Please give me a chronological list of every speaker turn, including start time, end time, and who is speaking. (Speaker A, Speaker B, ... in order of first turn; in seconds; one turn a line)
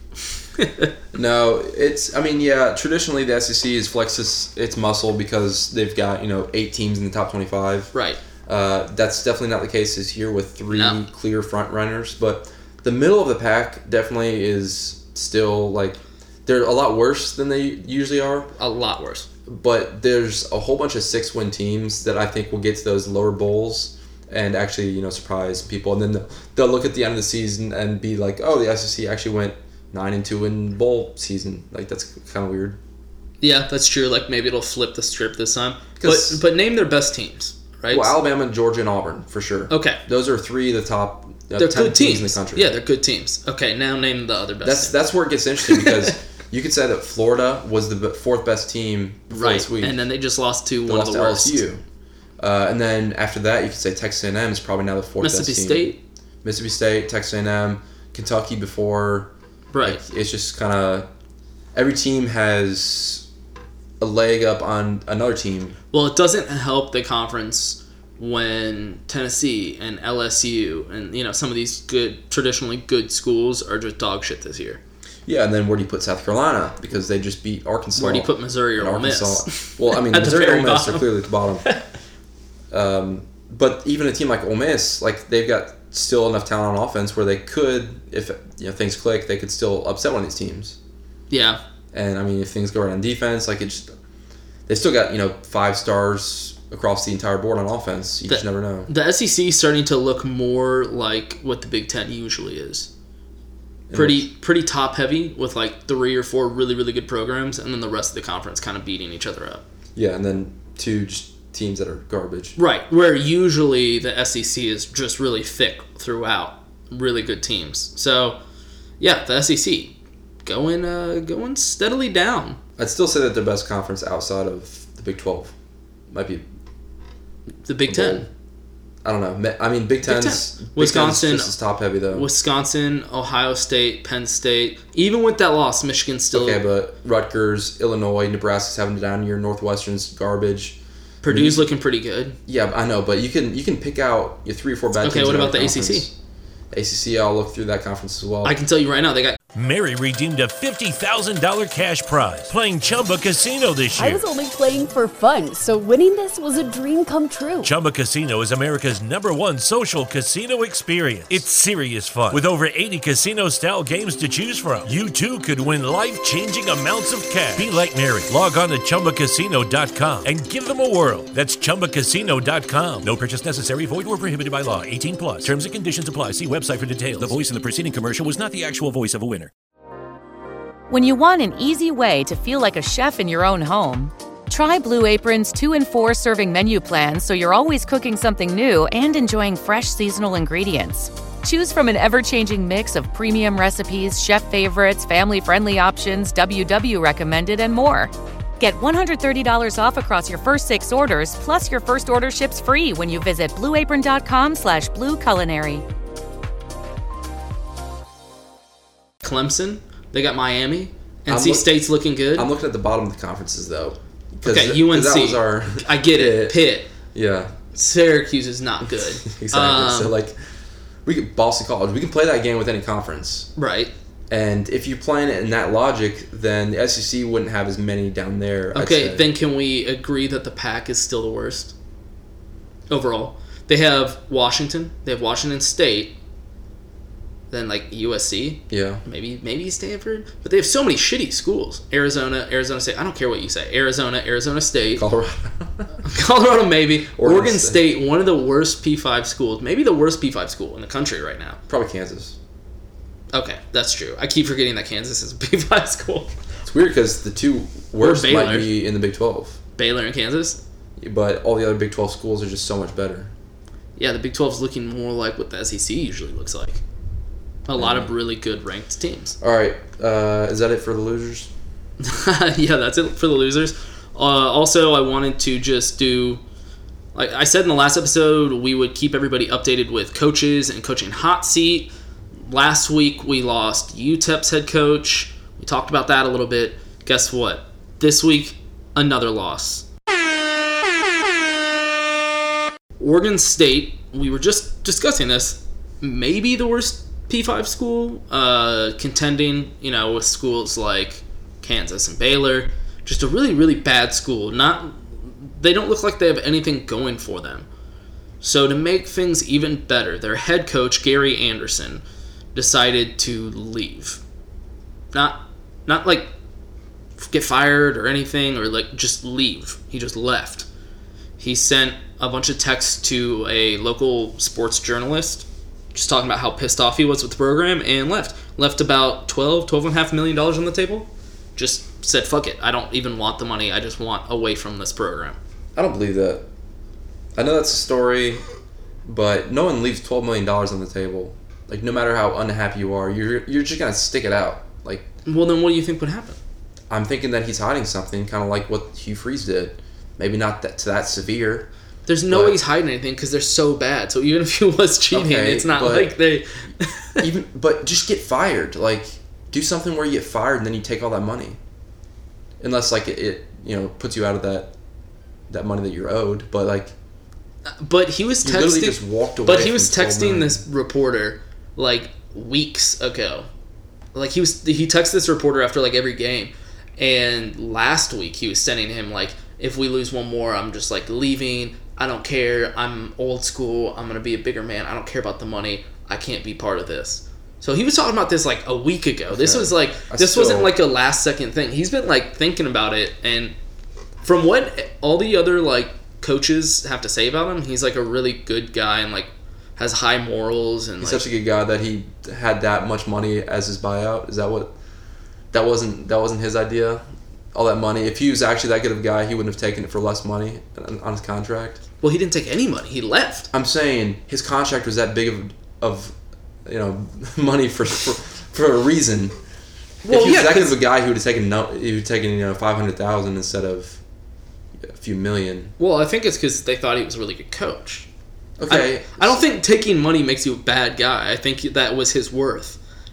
Speaker A: 0.6-0.9
Speaker B: 1.1-7.9
Speaker A: 7.9-8.2
Speaker B: 8.5-18.5
Speaker A: 10.7-11.0
Speaker A: 18.6-19.3
Speaker B: 19.5-32.8
Speaker A: 33.4-38.2
Speaker B: 36.0-36.4
Speaker B: 37.9-42.8
Speaker A: 39.7-40.0
Speaker A: 41.6-45.0
Speaker B: 44.6-50.0
Speaker A: 49.3-51.6
Speaker B: 50.9-51.8
Speaker B: 52.4-55.9
Speaker A: 55.2-56.0
Speaker B: 56.4-59.3
Speaker A: 59.7-60.0
Speaker B: 59.8-61.1
Speaker B: 61.7-63.3
Speaker B: 64.0-65.8
Speaker A: 65.9-74.8
Speaker B: 75.3-81.7
Speaker A: 78.0-81.8
Speaker B: 82.7-90.8
Speaker A: 91.3-91.6
Speaker B: 91.9-93.9
Speaker B: 94.7-98.9
Speaker A: 98.3-102.9
Speaker B: 103.9-104.3
Speaker A: 103.9-109.6
Speaker B: 110.0-112.6
Speaker A: 112.6-118.4
Speaker A: 119.0-119.9
Speaker A: 120.5-122.6
Speaker B: 122.8-125.5
Speaker B: 126.1-126.5
Speaker A: 127.7-128.3
Speaker B: 127.9-128.3
Speaker B: 129.0-132.3
Speaker A: 130.0-131.5
Speaker A: 132.1-136.6
Speaker B: 136.3-141.7
Speaker A: 141.2-142.4
Speaker B: 142.5-146.1
Speaker A: 145.0-146.1
Speaker B: 146.7-148.6
Speaker A: 148.4-149.4
Speaker C: 149.6-154.2
Speaker D: 154.0-157.7
Speaker C: 157.6-177.6
Speaker E: 180.9-205.8
Speaker A: 209.2-212.5
Speaker B: 211.3-211.8
Speaker B: 212.3-216.6
Speaker A: 214.4-216.9
Speaker B: 217.1-217.6
Speaker A: 217.7-220.2
Speaker B: 218.9-220.4
Speaker B: 221.1-223.5
Speaker A: 223.6-223.9
Speaker B: 224.3-229.3
Speaker A: 228.7-231.7
Speaker A: 232.9-236.2
Speaker A: 237.5-245.0
Speaker B: 238.7-239.0
Speaker B: 244.9-245.9
Speaker A: 246.0-251.6
Speaker B: 247.2-247.8
Speaker B: 251.7-252.4
Speaker A: 253.3-256.3
Speaker B: 256.6-259.6
Speaker A: 258.0-258.7
Speaker A: 259.8-260.6
Speaker B: 261.0-263.3
Speaker A: 264.0-266.8
Speaker A: 267.7-269.4
Speaker B: 267.8-268.1
Speaker B: 269.4-271.5
Speaker A: 272.0-276.4
Speaker A: 277.1-281.9
Speaker A: 282.5-289.9
Speaker A: 293.0-307.7
Speaker A: 308.4-312.0
Speaker A: 312.6-314.2
Speaker A: 315.1-316.3
Speaker A: 317.2-320.7
Speaker A: 321.4-335.4
Speaker B: 335.8-336.4
Speaker B: 337.4-338.4
Speaker B: 339.1-345.1
Speaker A: 345.2-346.4
Speaker B: 346.9-351.7
Speaker A: 352.1-357.2
Speaker B: 352.3-352.6
Speaker B: 355.1-356.2
Speaker B: 357.2-361.6
Speaker B: 362.6-364.7
Speaker B: 365.5-366.9
Speaker A: 367.7-373.5
Speaker B: 368.4-370.6
Speaker A: 374.1-393.5
Speaker B: 389.3-390.8
Speaker A: 394.2-401.3
Speaker B: 401.0-404.7
Speaker B: 405.5-411.8
Speaker A: 412.0-413.5
Speaker B: 413.5-419.4
Speaker A: 420.1-420.8
Speaker B: 420.1-424.0
Speaker B: 424.8-425.7
Speaker A: 425.8-428.1
Speaker B: 428.6-429.4
Speaker A: 428.7-432.8